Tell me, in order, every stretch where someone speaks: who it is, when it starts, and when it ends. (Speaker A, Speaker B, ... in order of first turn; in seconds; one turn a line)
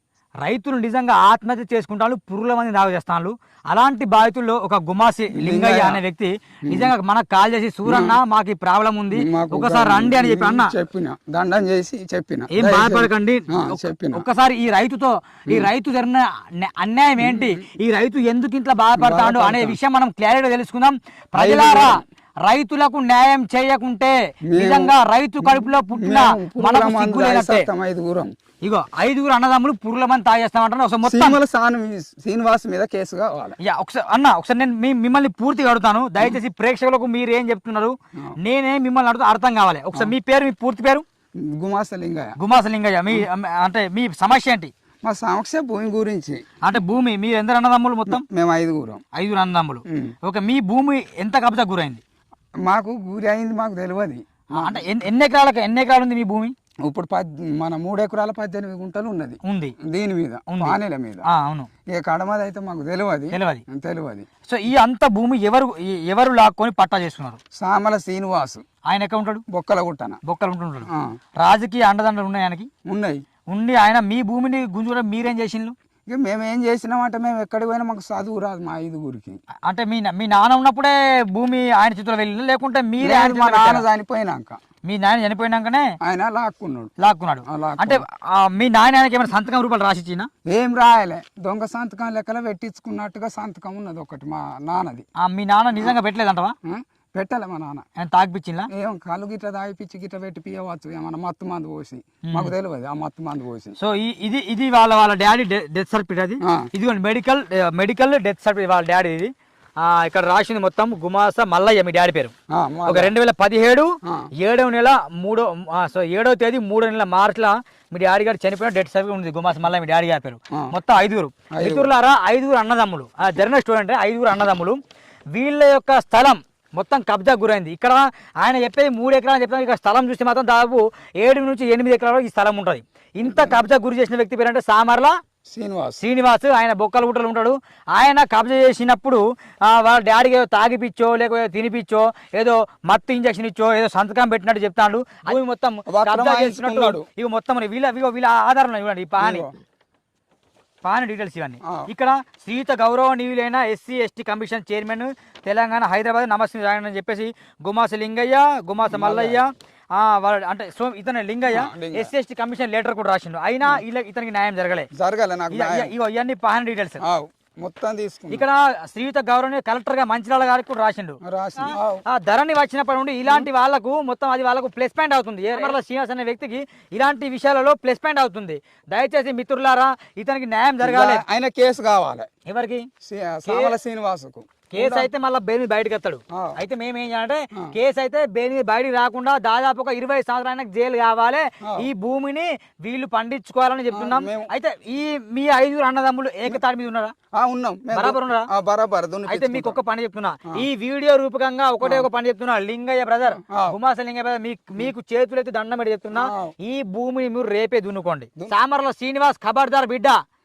Speaker A: 0.4-10.7
Speaker B: 5.3-6.0
Speaker B: 6.7-6.9
Speaker B: 7.9-8.2
Speaker B: 9.2-14.3
Speaker A: 12.5-27.7
Speaker B: 17.2-17.6
Speaker B: 19.0-19.8
Speaker B: 21.4-22.0
Speaker B: 24.5-28.3
Speaker A: 28.6-31.4
Speaker B: 31.1-33.6
Speaker A: 33.6-41.0
Speaker B: 41.4-42.4
Speaker A: 42.4-44.7
Speaker B: 45.0-46.5
Speaker A: 46.6-48.2
Speaker B: 48.1-49.0
Speaker A: 49.1-52.0
Speaker B: 49.9-50.1
Speaker B: 52.6-54.8
Speaker A: 54.5-56.5
Speaker B: 56.8-61.2
Speaker A: 59.4-59.8
Speaker A: 60.5-61.7
Speaker B: 61.9-64.3
Speaker A: 63.3-63.6
Speaker A: 64.5-67.4
Speaker B: 67.5-68.7
Speaker A: 68.9-69.4
Speaker B: 69.5-70.2
Speaker A: 70.2-72.7
Speaker B: 72.9-73.2
Speaker A: 73.5-75.8
Speaker B: 76.1-79.4
Speaker A: 79.7-83.8
Speaker B: 83.0-84.6
Speaker A: 84.8-85.9
Speaker B: 86.0-86.9
Speaker A: 87.0-90.3
Speaker B: 87.5-88.0
Speaker B: 90.5-95.1
Speaker A: 95.2-96.5
Speaker B: 96.6-97.8
Speaker A: 98.0-98.7
Speaker B: 98.7-103.8
Speaker A: 102.3-102.5
Speaker A: 103.8-112.3
Speaker B: 106.4-106.7
Speaker B: 112.5-113.1
Speaker A: 112.9-124.8
Speaker B: 121.5-121.9
Speaker A: 125.3-135.2
Speaker B: 133.3-133.5
Speaker B: 135.5-136.0
Speaker A: 136.0-149.5
Speaker B: 145.9-147.1
Speaker B: 149.2-149.5
Speaker A: 150.8-164.9
Speaker B: 151.6-151.9
Speaker B: 158.9-159.4
Speaker B: 161.5-162.1
Speaker B: 164.9-165.9
Speaker A: 165.5-167.0
Speaker B: 167.0-168.5
Speaker A: 168.3-181.2
Speaker B: 171.2-172.0
Speaker B: 180.8-182.3
Speaker A: 182.5-182.9
Speaker B: 183.0-185.1
Speaker A: 183.5-183.8
Speaker A: 184.7-197.1
Speaker B: 191.6-191.9
Speaker B: 193.9-194.5
Speaker B: 197.3-199.8
Speaker A: 197.9-198.5
Speaker A: 199.3-210.2
Speaker B: 203.4-203.8
Speaker B: 206.2-206.5